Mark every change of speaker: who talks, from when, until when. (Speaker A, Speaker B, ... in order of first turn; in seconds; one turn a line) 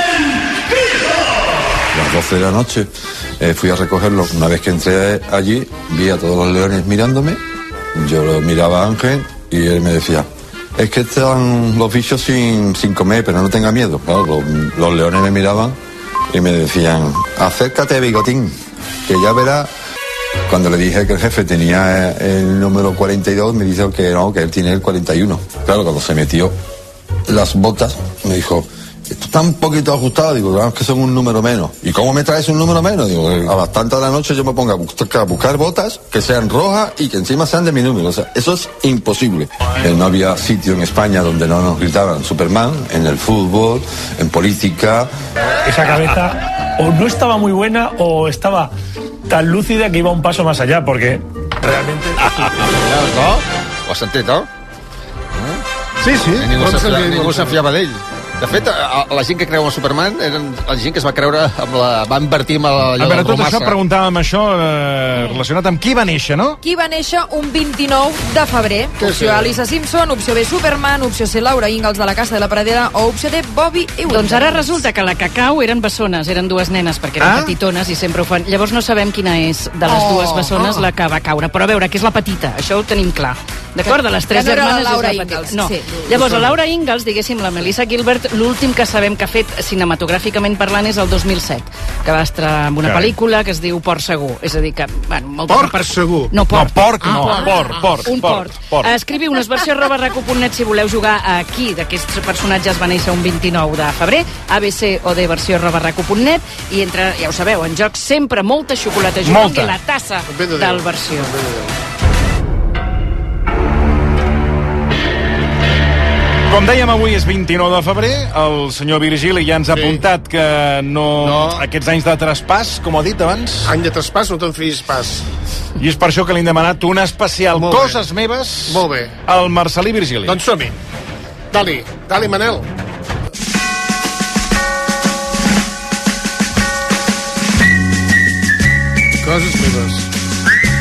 Speaker A: 1.9-7.4
Speaker A: 7.9-15.8
Speaker A: 16.3-19.7
Speaker A: 20.5-26.5
Speaker A: 27.3-45.1
Speaker B: 45.6-48.7
Speaker B: 49.3-51.2
Speaker C: 52.2-54.5
Speaker C: 55.3-55.6
Speaker D: 56.0-57.6
Speaker C: 56.3-63.8
Speaker E: 62.9-66.6
Speaker F: 66.6-74.8
Speaker D: 69.0-69.6
Speaker G: 74.0-111.3
Speaker E: 77.2-77.5
Speaker F: 79.9-80.8
Speaker F: 83.9-86.1
Speaker D: 86.1-86.5
Speaker E: 92.8-93.1
Speaker D: 95.5-96.4
Speaker E: 96.5-98.9
Speaker D: 97.0-98.1
Speaker E: 109.2-109.8
Speaker D: 110.3-111.7
Speaker E: 116.5-123.7
Speaker D: 119.7-120.0
Speaker D: 121.2-121.6
Speaker D: 123.6-125.2
Speaker E: 125.8-130.4
Speaker D: 127.5-128.0
Speaker D: 128.7-129.1
Speaker D: 130.2-130.8
Speaker D: 131.5-132.7
Speaker D: 139.2-140.1